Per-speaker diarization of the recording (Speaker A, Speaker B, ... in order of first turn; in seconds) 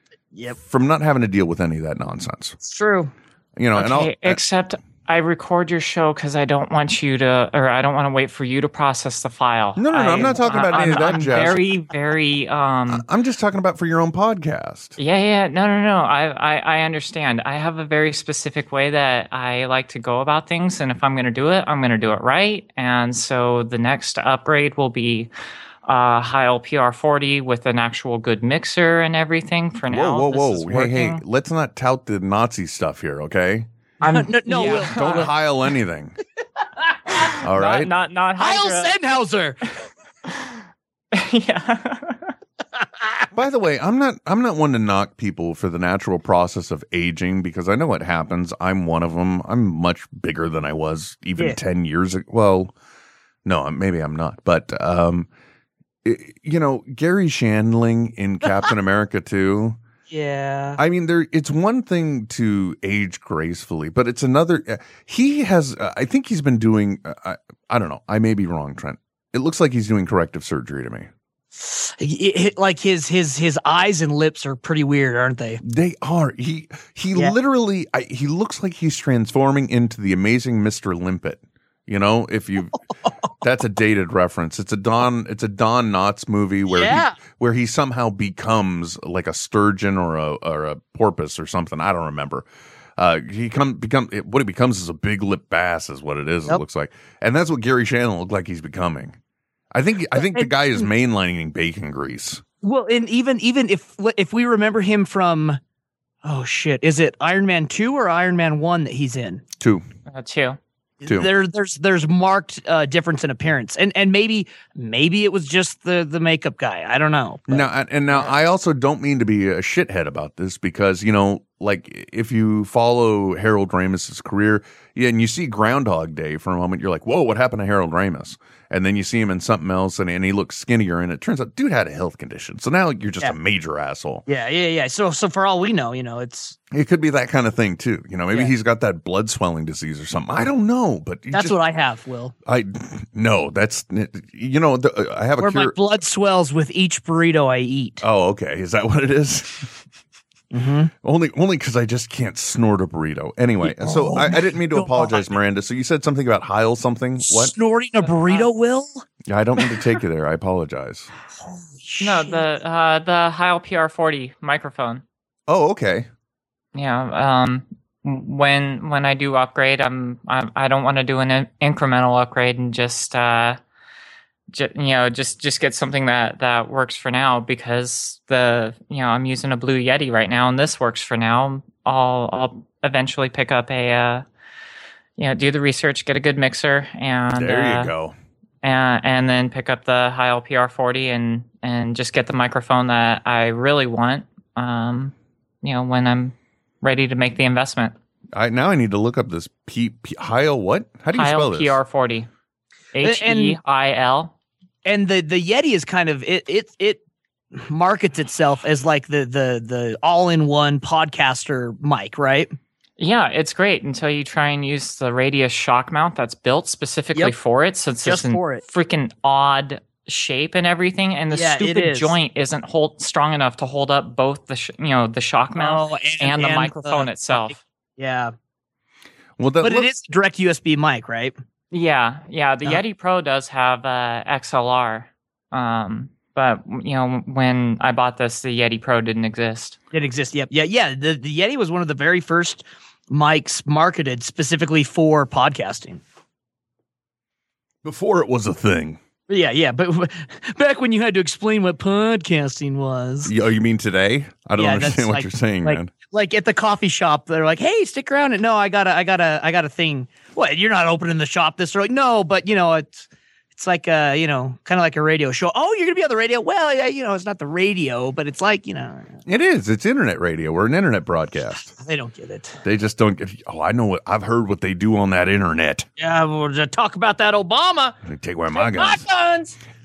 Speaker A: 0.6-2.5, 3.6-4.4, 9.8-11.7, 12.9-15.0, 29.9-33.7, 34.5-36.2, 37.4-37.9, 43.3-52.7, 53.5-55.3, 56.0-59.8, 60.8-71.1, 75.6-82.8, 83.4-99.2, 99.7-102.4, 109.6-109.8, 117.5-134.2, 136.7-141.6, 142.4-145.8, 148.0-149.7, 151.0-157.5, 159.2-161.1, 165.5-166.1, 187.3-188.2, 198.3-201.8, 229.4-229.9, 247.8-249.0, 253.2-255.9, 269.3-271.7, 272.6-275.9, 278.0-279.1
Speaker B: 2.6-3.1, 34.0-35.3, 38.4-39.6, 42.8-43.3, 60.1-60.8, 71.5-75.6, 86.7-87.2, 100.1-100.9, 102.6-105.6, 106.2-109.4, 111.0-117.7, 134.3-136.6, 141.3-142.3, 145.4-148.0, 150.5-150.9, 153.6-155.4, 157.2-159.0, 161.5-162.4, 203.0-203.6, 204.8-207.0, 207.5-212.6, 218.0-218.6, 221.3-222.2, 225.6-228.3, 229.6-231.3, 239.9-246.0, 249.3-253.3, 254.6-269.2, 271.7-272.6, 276.0-278.0, 278.5-279.6
Speaker C: 3.7-13.1, 15.0-25.3, 25.9-31.2, 34.0-35.3, 37.4-39.0, 40.3-40.6, 41.1-42.3, 110.1-110.6, 158.0-158.5, 162.0-165.0, 166.7-173.6, 174.5-184.2, 185.2-187.9, 188.6-197.9, 201.1-202.3, 202.9-204.3, 213.0-227.6, 231.7-239.8